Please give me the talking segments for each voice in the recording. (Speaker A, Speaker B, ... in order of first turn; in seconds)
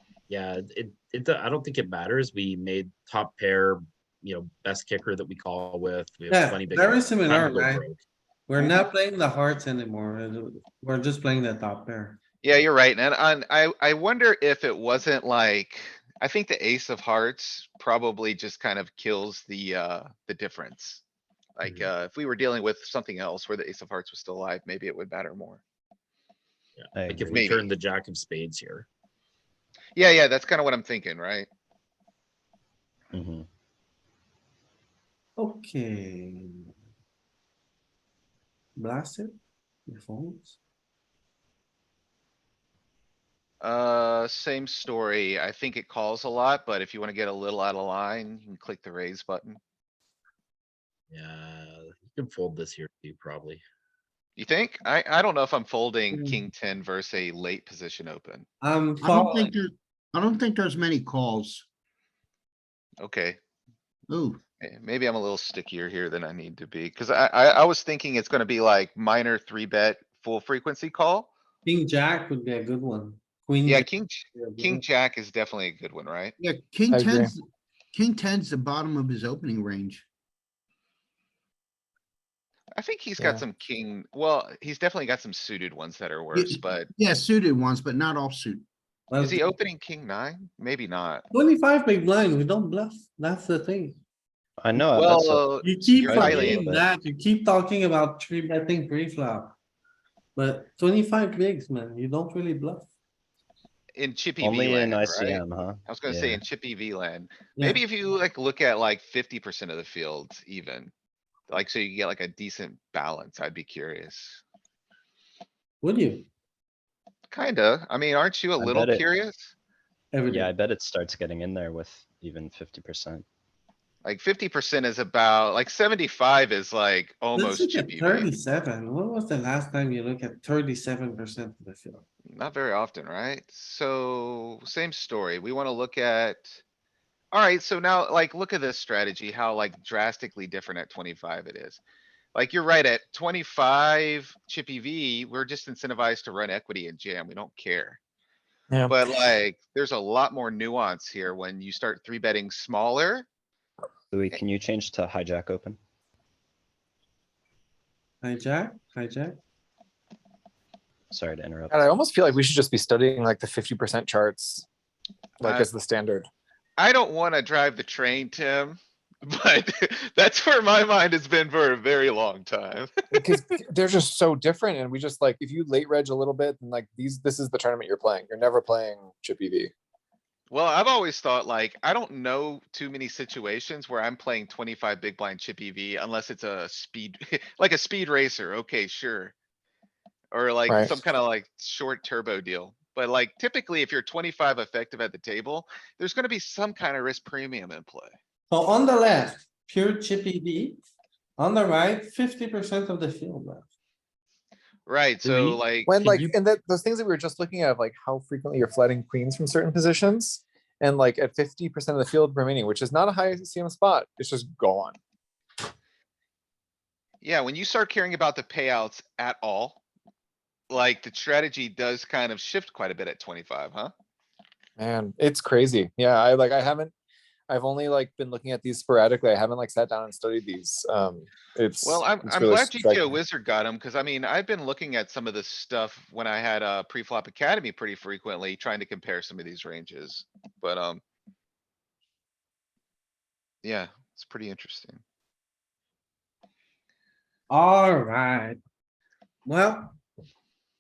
Speaker A: 0.3-8.0, 26.8-28.9, 51.1-53.6, 205.2-206.3
Speaker B: 6.3-7.9, 8.5-12.2, 35.4-36.7, 38.8-39.4, 39.9-40.6, 56.1-56.4, 58.6-59.5, 71.6-74.8, 89.1-89.5, 91.3-94.0, 95.6-99.5, 100.3-102.9, 107.5-107.8, 115.8-116.3, 120.1-120.5, 127.3-132.0, 158.2-159.4, 198.5-200.8, 201.4-203.6, 247.5-248.6, 249.4-250.0
Speaker C: 12.4-21.0, 21.6-25.6, 27.3-27.7, 29.9-31.5, 43.6-49.6, 54.4-58.5, 63.0-63.4, 64.6-71.3, 73.6-76.3, 82.7-86.9, 89.2-91.2, 94.9-96.7, 104.0-110.9, 111.5-114.4, 117.3-119.5, 124.0-128.3, 132.3-136.6, 137.3-141.8, 142.3-148.0, 148.9-153.3, 165.4-165.7, 166.8-173.2, 180.5-189.3, 190.3-198.1, 204.9-206.0, 217.2-219.8, 220.7-223.9, 231.8-241.0, 243.6-245.0
Speaker D: 26.9-27.4, 33.1-33.5, 94.6-96.8, 104.4-106.4, 118.6-119.0, 120.3-123.2, 154.1-155.8, 161.1-161.8
Speaker E: 59.0-61.6, 64.1-64.4, 76.4-77.3, 77.9-80.0, 86.3-88.6
Speaker F: 76.9-77.3, 148.7-149.0, 161.7-164.6, 165.4-166.2, 173.1-179.7, 190.7-191.0, 205.8-215.0, 224.8-226.9, 227.5-233.1